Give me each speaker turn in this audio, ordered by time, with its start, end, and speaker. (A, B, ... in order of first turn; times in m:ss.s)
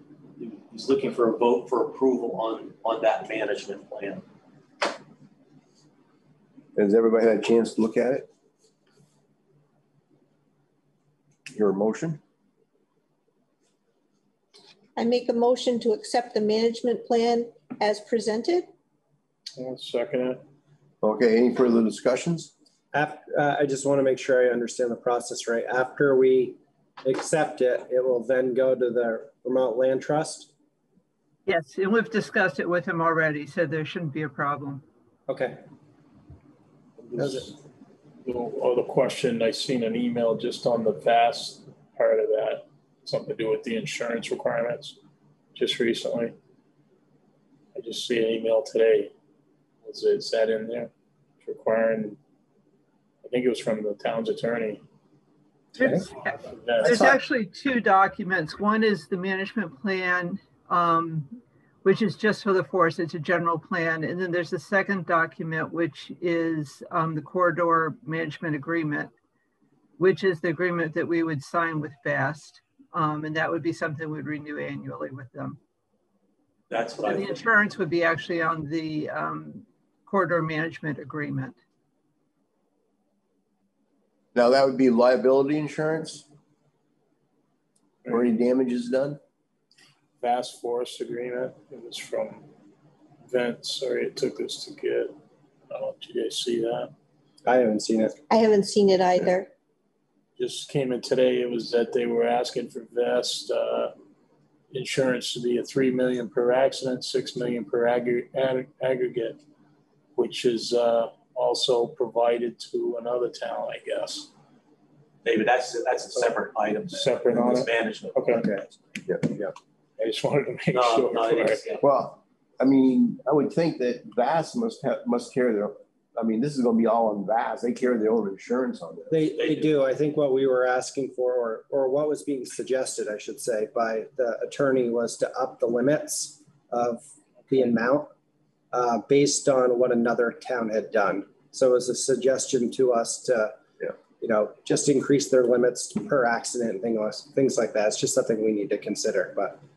0:00.4-0:04.2 A
0:06.8-0:08.3 B
0:11.5-0:12.2 B
0:15.0-0:18.7 C
0:19.6-0:20.4 D
0:21.0-0:22.5 B
0:22.9-0:30.5 E
0:31.4-0:34.8 F
0:35.3-0:35.6 E
0:37.1-0:37.5 E
0:38.2-0:45.0 D
0:45.5-0:46.4 D
0:47.7-0:49.1 D
0:49.8-0:52.2 D
0:53.2-0:54.8 D
0:55.8-0:56.0 E
0:55.8-1:09.1 F
0:55.9-0:57.2 D
0:56.8-0:57.1 E
1:10.0-1:15.6 F
1:16.7-1:17.5 A
1:17.0-1:21.6 F
1:24.3-1:26.2 B
1:28.1-1:29.2 B
1:30.2-1:32.5 D
1:33.2-1:35.2 D
1:35.7-1:36.9 D
1:37.4-1:38.1 E
1:38.3-1:39.5 C
1:40.4-1:43.9 D
1:44.7-1:49.4 D
1:50.2-1:54.3 D
1:55.2-1:58.7 A
1:56.9-1:58.5 D
1:58.3-1:58.6 E
1:59.2-1:59.5 E
2:00.0-2:01.6 D
2:00.7-2:01.8 A
2:01.8-2:09.2 B
2:09.1-2:18.1 E
2:09.4-2:09.7 A
2:18.7-2:23.6 E
2:24.2-2:29.6 E